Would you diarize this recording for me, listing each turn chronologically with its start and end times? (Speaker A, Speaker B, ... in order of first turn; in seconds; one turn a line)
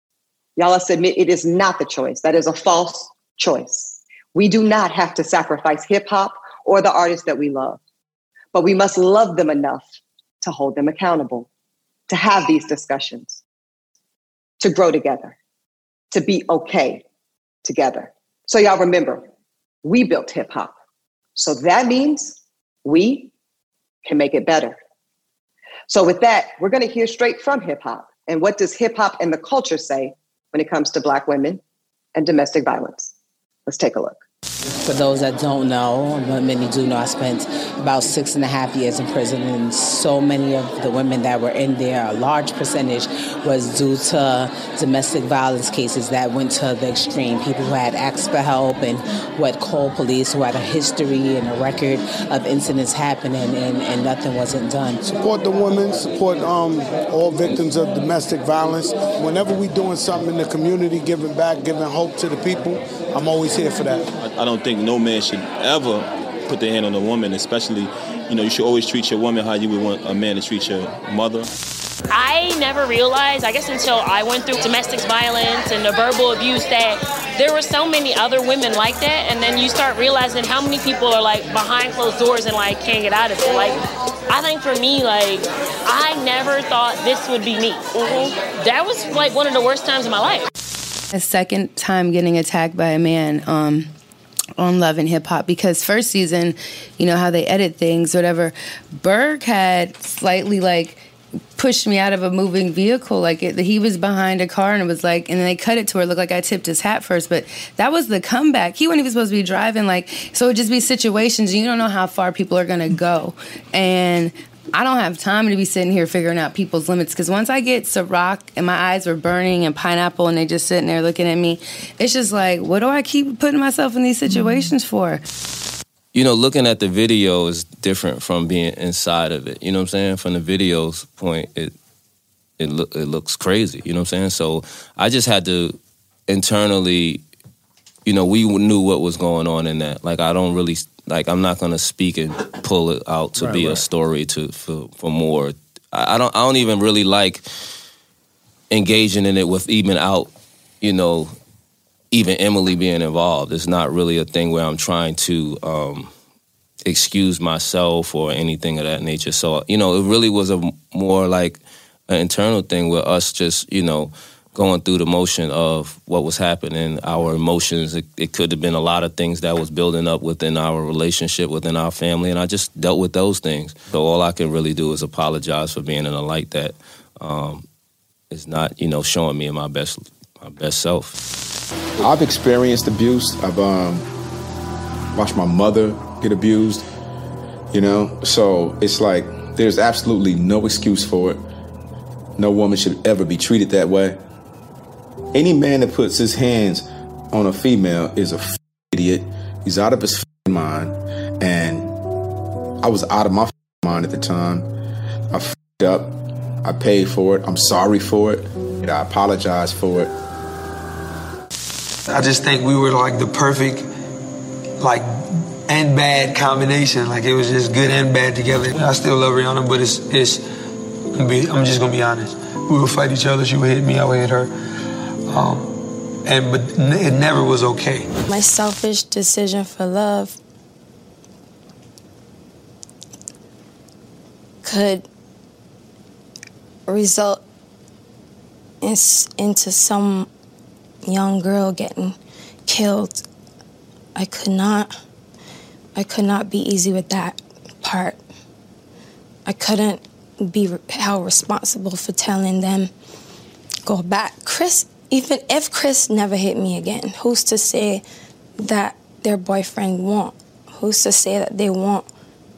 Speaker A: 0.6-7.8
Speaker A: 8.5-11.5
Speaker A: 12.1-13.4
Speaker A: 14.6-15.3
Speaker A: 16.1-17.0
Speaker A: 17.6-19.2
Speaker A: 19.8-20.7
Speaker A: 21.4-23.3
Speaker A: 24.0-24.8
Speaker A: 25.9-31.6
Speaker A: 32.1-33.1
Speaker A: 33.7-34.2
Speaker B: 34.8-55.1
Speaker C: 55.1-64.0
Speaker D: 64.2-71.5
Speaker E: 72.1-90.5
Speaker F: 91.1-93.9
Speaker F: 94.6-125.2
Speaker G: 126.1-131.7
Speaker G: 132.6-137.2
Speaker G: 138.1-147.4
Speaker G: 148.7-150.3
Speaker G: 150.8-151.3
Speaker G: 152.1-156.1
Speaker G: 156.8-177.7
Speaker G: 178.3-181.2
Speaker H: 182.0-184.1
Speaker H: 185.1-186.8
Speaker H: 187.7-191.4
Speaker H: 192.4-194.2
Speaker H: 195.3-201.9
Speaker H: 202.8-204.7
Speaker H: 205.3-210.1
Speaker I: 212.1-213.8
Speaker I: 214.8-220.4
Speaker I: 221.1-224.5
Speaker I: 225.3-228.1
Speaker J: 228.3-230.4
Speaker J: 234.6-235.0
Speaker J: 236.9-237.4
Speaker J: 238.8-240.3
Speaker J: 241.1-243.2
Speaker J: 244.2-244.9
Speaker J: 245.9-248.2
Speaker J: 249.4-252.9
Speaker J: 253.8-258.0
Speaker J: 258.6-262.1